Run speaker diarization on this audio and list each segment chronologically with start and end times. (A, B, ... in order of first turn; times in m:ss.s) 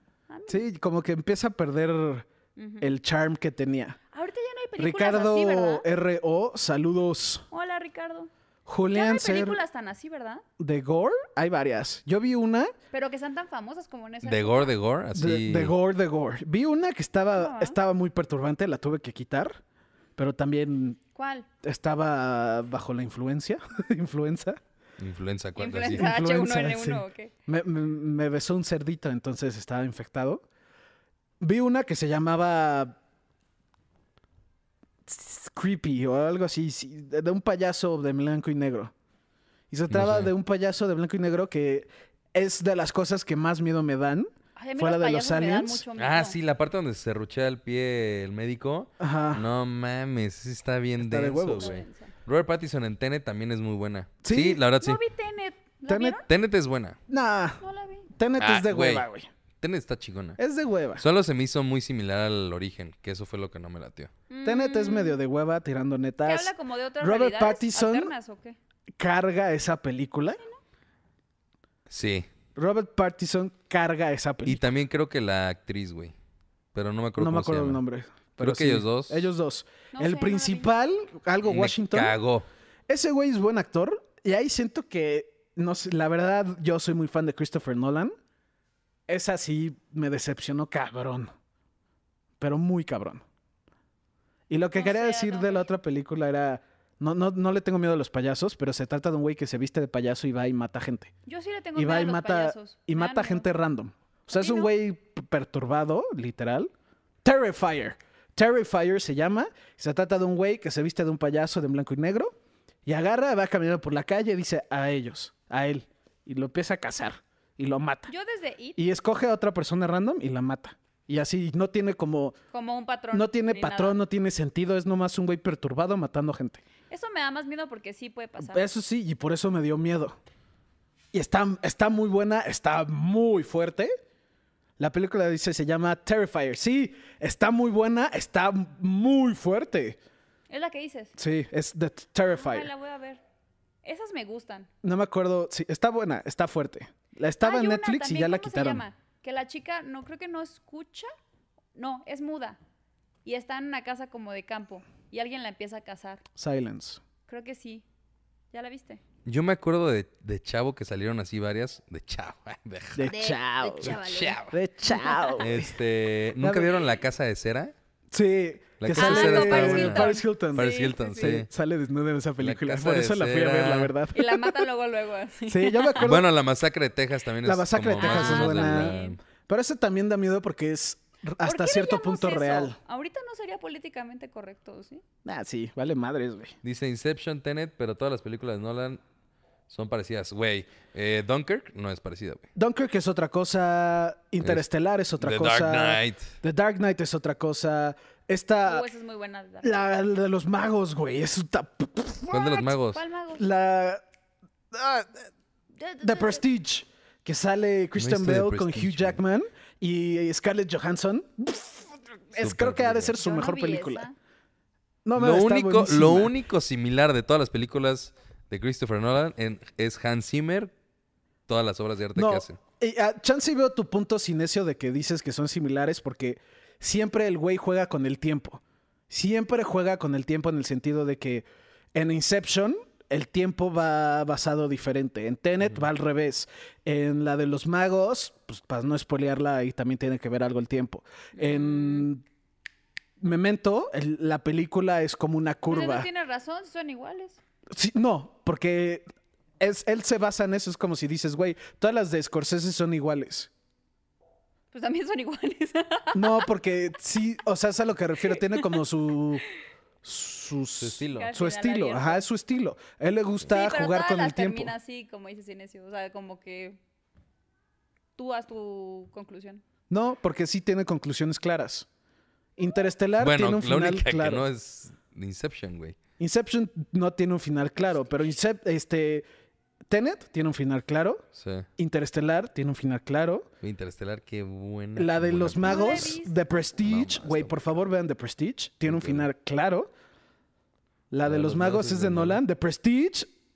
0:00.3-0:00.6 A
0:00.5-0:02.3 B
0:02.6-0:02.9 A
0:02.8-0:04.0 B
0:04.1-0:05.8 A
0:04.8-0:07.4 B
0:07.5-0:08.3 A
0:08.6-0:09.6 B
0:08.9-0:10.4 A
0:10.6-0:12.7 B
0:12.9-0:14.7 A
0:14.2-0:15.7 C
0:15.1-0:19.6 B
0:17.4-0:17.8 A
0:20.2-0:21.0 B
0:21.1-0:21.5 A
0:21.6-0:24.6 B
0:25.0-0:26.1 C
0:25.6-0:27.3 A
0:25.9-0:30.4 B
0:31.4-0:33.0 B
0:35.1-0:38.9 B
0:39.7-0:45.8 B
0:39.9-0:40.3 C
0:44.6-0:46.4 A
0:46.0-0:55.0 C
0:49.0-0:49.4 B
0:51.0-0:51.7 B
0:51.6-0:52.1 A
0:54.2-0:54.6 B
0:54.8-0:56.2 A
0:55.8-0:56.2 B
0:56.3-0:57.0 C
0:57.1-0:57.6 B
0:57.6-0:58.1 A
0:58.1-0:59.3 B
0:58.4-0:59.0 C
0:59.6-1:00.4 C
1:00.4-1:01.0 B
1:01.0-1:04.1 C
1:04.3-1:05.2 A
1:04.4-1:08.1 B
1:06.2-1:08.6 A
1:09.0-1:10.4 B
1:11.9-1:12.3 C
1:12.5-1:14.6 B
1:14.4-1:16.1 C
1:16.7-1:17.8 C
1:17.2-1:22.1 B
1:18.4-1:19.3 C
1:19.9-1:20.7 A
1:21.4-1:22.5 C
1:22.9-1:28.1 B
1:29.1-1:31.3 B
1:32.4-1:33.2 B
1:34.5-1:41.1 B
1:34.7-1:35.7 A
1:41.2-1:43.5 A
1:41.7-1:46.7 B
1:44.3-1:44.7 A
1:47.2-1:52.3 B
1:52.8-1:58.1 B
1:58.1-1:58.8 A
1:58.8-2:02.4 B
2:02.5-2:04.0 A
2:03.1-2:06.6 B
2:06.9-2:08.6 A
2:08.4-2:10.2 B
2:11.1-2:13.9 B
2:14.8-2:20.0 B
2:20.5-2:21.1 A
2:21.2-2:22.7 B
2:22.3-2:23.2 A
2:23.8-2:24.7 A
2:24.8-2:28.8 B
2:27.4-2:31.1 A
2:31.7-2:32.6 A
2:33.2-2:36.2 A
2:36.4-2:37.0 B
2:37.3-2:37.8 A
2:38.5-2:39.0 A
2:39.2-2:43.1 C
2:42.9-2:45.7 B
2:43.0-2:45.4 A
2:43.8-2:44.5 C
2:45.4-2:47.7 C
2:46.4-2:46.8 B
2:48.1-2:54.6 B
2:48.8-2:51.5 C
2:48.9-2:51.3 A
2:52.4-2:53.9 C
2:54.1-2:56.1 A
2:55.5-2:56.3 B
2:56.0-2:59.2 C
2:57.4-2:59.0 B
2:58.0-2:59.2 A
2:59.5-3:02.8 B
3:01.4-3:05.0 A
3:05.2-3:06.5 B
3:06.6-3:09.0 C
3:09.7-3:12.4 C
3:12.5-3:18.8 B
3:15.2-3:16.3 C
3:18.6-3:19.8 A
3:19.6-3:22.7 B
3:22.3-3:23.0 C
3:22.9-3:23.4 A
3:23.3-3:24.0 B
3:24.7-3:25.3 B
3:25.8-3:26.4 A
3:26.0-3:34.1 B
3:28.0-3:29.2 C
3:32.4-3:33.1 C
3:33.2-3:34.2 A
3:35.0-3:36.3 B
3:35.2-3:40.7 C
3:41.5-3:42.6 C
3:42.2-4:02.2 B
4:01.4-4:02.1 A
4:03.2-4:06.1 B
4:05.7-4:07.4 A
4:07.7-4:09.0 B
4:09.6-4:13.5 B
4:14.7-4:16.5 A
4:16.1-4:19.4 B
4:18.2-4:18.8 A
4:20.0-4:24.7 B
4:20.8-4:21.3 C
4:21.1-4:22.2 A
4:23.5-4:26.8 A
4:28.2-4:29.6 A
4:29.9-4:31.9 B
4:32.6-4:34.4 B
4:33.2-4:36.0 C
4:36.2-4:39.2 B
4:37.8-4:38.4 A
4:39.9-4:41.2 B
4:41.3-4:41.7 C
4:41.8-4:43.5 B
4:43.6-4:46.2 C
4:45.0-4:49.9 B
4:45.6-4:46.6 A
4:46.8-4:47.7 C
4:48.9-4:49.3 C
4:51.1-4:53.3 B
4:51.2-4:52.4 C